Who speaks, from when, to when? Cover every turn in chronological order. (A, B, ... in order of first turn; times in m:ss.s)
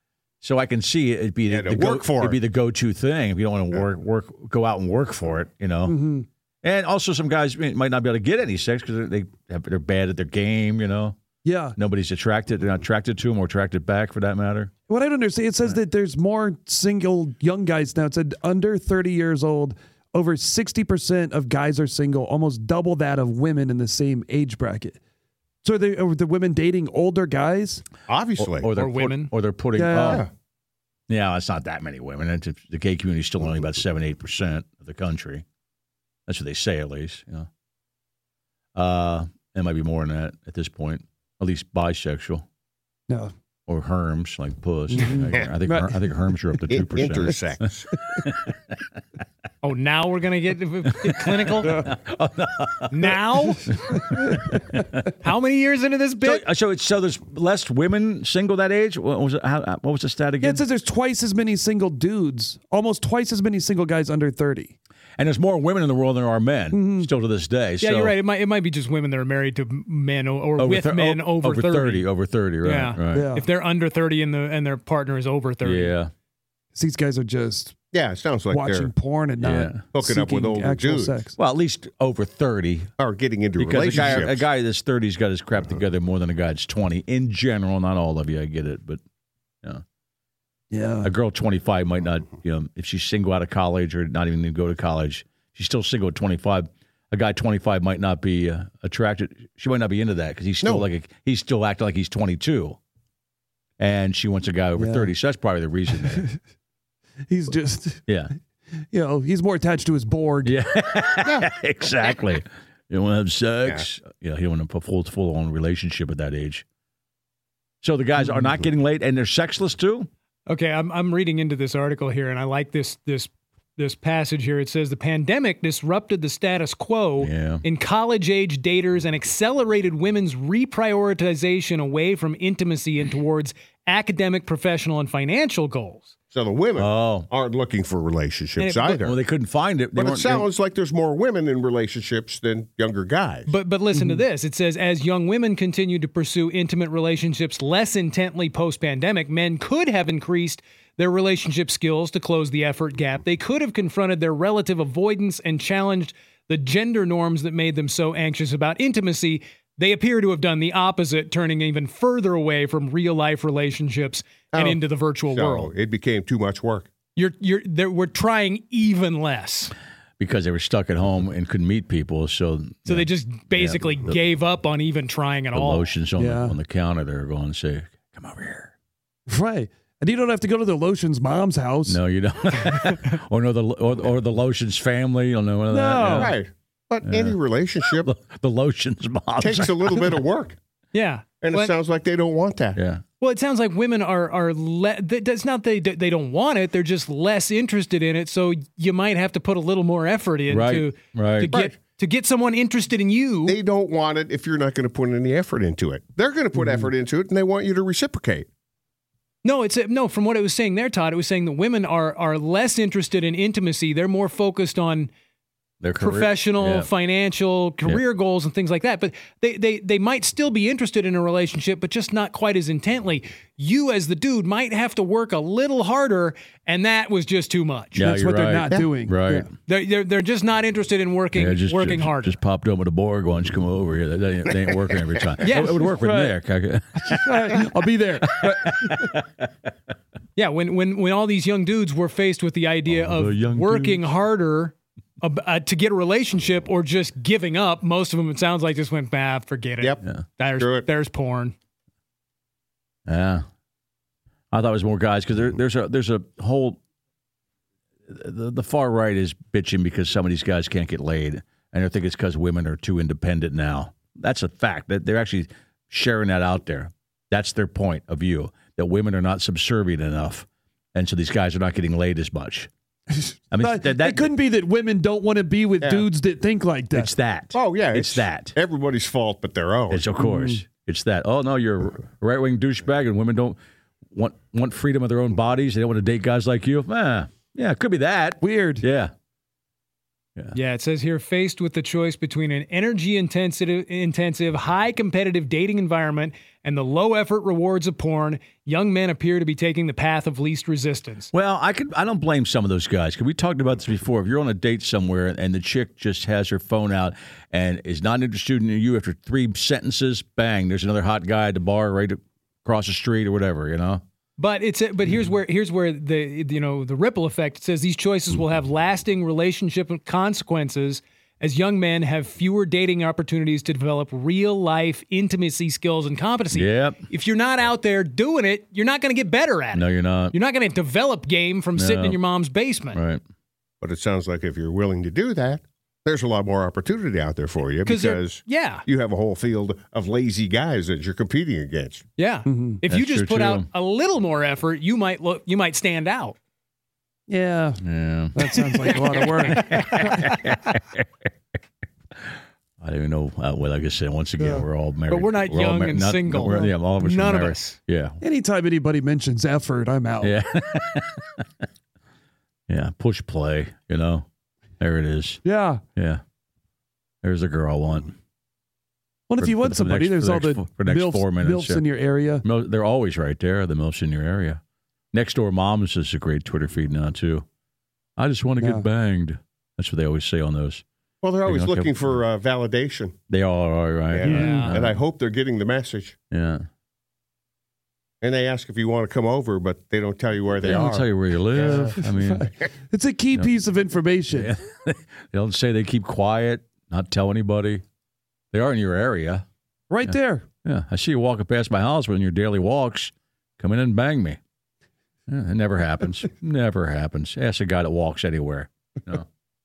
0:00.4-0:06.0 A
0:01.5-0:02.4 B
0:05.8-0:06.2 C
0:06.6-0:11.2 A
0:11.4-0:11.8 C
0:11.8-0:14.7 A
0:14.9-0:25.0 C
0:25.6-0:27.8 C
0:28.1-0:28.7 B
0:28.4-0:30.2 A
0:28.8-0:29.3 D
0:29.7-0:30.2 C
0:31.1-0:35.4 A
0:36.3-0:37.5 A
0:38.7-0:42.4 A
0:43.7-0:47.5 A
0:44.9-0:46.1 C
0:46.7-0:47.9 B
0:48.2-0:48.7 A
0:49.6-0:51.8 D
0:51.0-0:53.2 A
0:52.9-0:53.7 D
0:53.7-0:54.8 A
0:53.9-0:54.5 C
0:55.2-0:56.4 D
0:56.2-1:00.6 A
1:00.4-1:04.7 C
1:05.2-1:08.1 A
1:06.7-1:07.1 C
1:07.8-1:12.1 D
1:10.6-1:13.3 A
1:12.6-1:15.9 D
1:13.1-1:13.4 C
1:15.6-1:16.1 A
1:16.7-1:17.8 C
1:17.9-1:18.9 B
1:18.5-1:21.4 C
1:19.4-1:19.8 A
1:19.9-1:21.2 B
1:21.4-1:22.9 A
1:23.0-1:24.4 B
1:23.6-1:29.0 A
1:30.7-1:31.1 C
1:31.0-1:42.8 A
1:40.6-1:40.9 B
1:43.8-1:46.2 A
1:44.8-1:45.1 C
1:46.0-1:46.4 C
1:47.3-1:48.0 C
1:48.9-1:50.6 C
1:50.4-1:56.6 A
1:57.8-2:00.1 A
2:00.5-2:16.1 D
2:07.2-2:07.6 A
2:16.3-2:19.2 B
2:16.8-2:17.3 A
2:18.6-2:19.0 D
2:19.0-2:20.5 A
2:19.9-2:23.5 B
2:23.5-2:45.7 D
2:23.9-2:24.2 C
2:44.5-2:46.9 B
2:47.2-2:49.7 D
2:50.2-2:54.1 A
2:52.8-2:55.8 D
2:55.5-2:58.7 A
2:56.2-2:56.6 C
2:59.3-3:02.0 C
3:01.8-3:06.3 A
3:05.7-3:06.3 C
3:06.1-3:08.1 B
3:07.0-3:07.4 A
3:07.9-3:10.2 A
3:09.4-3:10.6 B
3:10.9-3:11.7 D
3:11.4-3:12.8 B
3:12.8-3:13.0 A
3:13.2-3:23.6 D
3:20.5-3:21.5 A
3:23.4-3:28.5 B
3:26.6-3:26.8 C
3:29.4-3:35.1 D
3:35.8-3:36.9 A
3:36.0-3:48.0 D
3:48.0-3:49.5 A
3:48.0-3:49.5 C
3:49.7-3:52.4 D
3:51.3-3:57.6 A
3:55.4-3:55.8 D
3:55.9-3:56.4 C
3:57.0-3:59.1 C
3:58.2-3:59.2 A
4:00.4-4:11.5 D
4:02.9-4:04.0 A
4:10.6-4:10.9 B
4:13.1-4:13.4 A
4:14.5-4:16.8 A
4:18.1-4:32.7 A
4:33.1-4:37.1 C
4:33.5-4:34.3 A
4:35.8-4:36.1 B
4:36.9-4:38.5 A
4:37.5-4:40.0 B
4:39.9-4:43.6 A
4:40.2-4:40.6 C
4:44.1-4:49.1 A
4:48.4-4:48.8 C
4:50.5-5:01.3 D
5:01.3-5:14.0 A
5:14.4-5:33.0 D
5:26.5-5:27.0 A
5:29.7-5:30.3 A
5:31.8-5:32.2 A
5:32.9-5:33.2 A
5:33.8-5:42.0 B
5:37.8-5:38.8 D
5:42.2-5:46.4 D
5:42.4-5:42.8 C
5:42.9-5:43.7 A
5:47.3-5:47.8 C
5:47.8-5:51.0 A
5:48.3-5:50.3 C
5:52.8-5:58.2 A
5:54.4-5:54.6 C
5:55.1-5:57.8 D
5:58.2-6:00.4 C
6:00.2-6:01.4 A
6:02.7-6:04.2 A
6:04.8-6:05.4 A
6:05.4-6:05.8 C
6:06.0-6:06.2 A
6:07.2-6:08.2 A
6:09.3-6:12.4 C
6:09.4-6:11.8 A
6:12.4-6:14.6 A
6:15.1-6:17.4 A
6:18.2-6:20.8 A
6:18.6-6:18.8 C
6:21.2-6:23.2 B
6:21.4-6:22.0 A
6:23.3-6:24.9 A
6:24.1-6:26.2 B
6:24.2-6:24.7 D
6:24.3-6:24.7 C
6:26.3-6:26.6 A
6:28.2-6:32.0 B
6:30.6-6:32.5 A
6:31.5-6:34.5 C
6:34.3-6:37.8 A
6:38.5-6:39.4 A
6:39.9-6:40.4 C
6:40.1-6:44.4 A
6:45.3-6:49.2 A